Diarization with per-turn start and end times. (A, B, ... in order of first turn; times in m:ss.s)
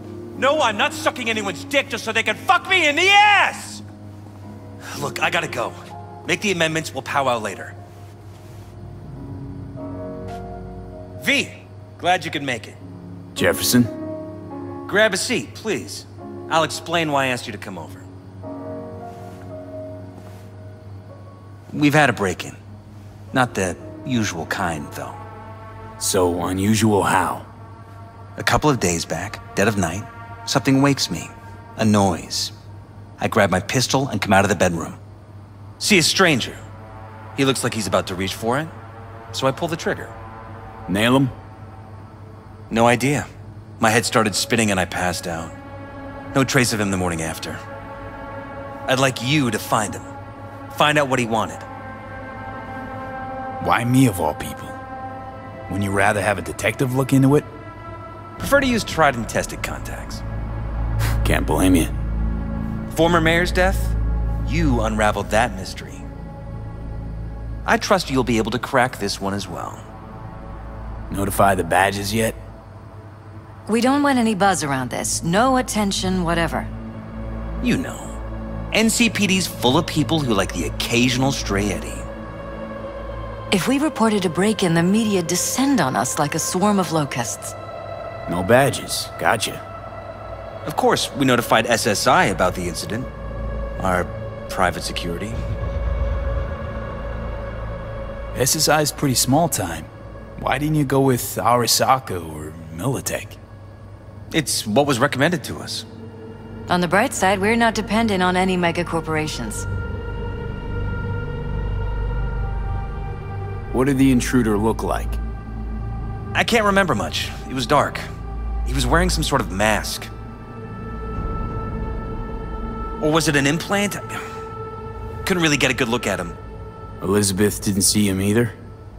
0:00.3-0:03.8 A
0:04.8-0:07.7 A
0:11.2-0:12.8 A
0:13.3-0:13.9 B
0:14.9-0:18.0 A
0:21.7-0:22.6 A
0:23.3-0:25.2 A
0:26.0-0:27.5 B
0:28.4-0:32.5 A
0:33.2-0:35.0 A
0:35.8-0:36.6 A
0:37.4-0:38.7 A
0:39.3-0:40.1 A
0:40.9-0:41.3 B
0:42.7-0:43.3 A
0:43.8-0:45.5 A
0:46.3-0:47.6 A
0:48.9-0:50.0 A
0:50.7-0:51.6 A
0:53.6-0:54.8 B
0:55.7-0:57.5 B
0:58.4-1:00.2 A
1:01.2-1:02.0 B
1:02.9-1:06.0 A
1:07.6-1:09.8 A
1:11.1-1:12.4 B
1:13.7-1:16.7 C
1:17.6-1:18.2 A
1:18.7-1:22.0 A
1:23.5-1:27.5 C
1:28.3-1:29.6 B
1:30.6-1:33.1 A
1:33.8-1:35.4 A
1:38.3-1:43.4 B
1:44.3-1:45.8 A
1:46.7-1:49.6 C
1:53.7-1:55.2 B
1:56.3-1:58.0 A
1:58.6-2:00.1 A
2:03.0-2:04.2 A
2:05.2-2:06.4 A
2:07.0-2:08.6 B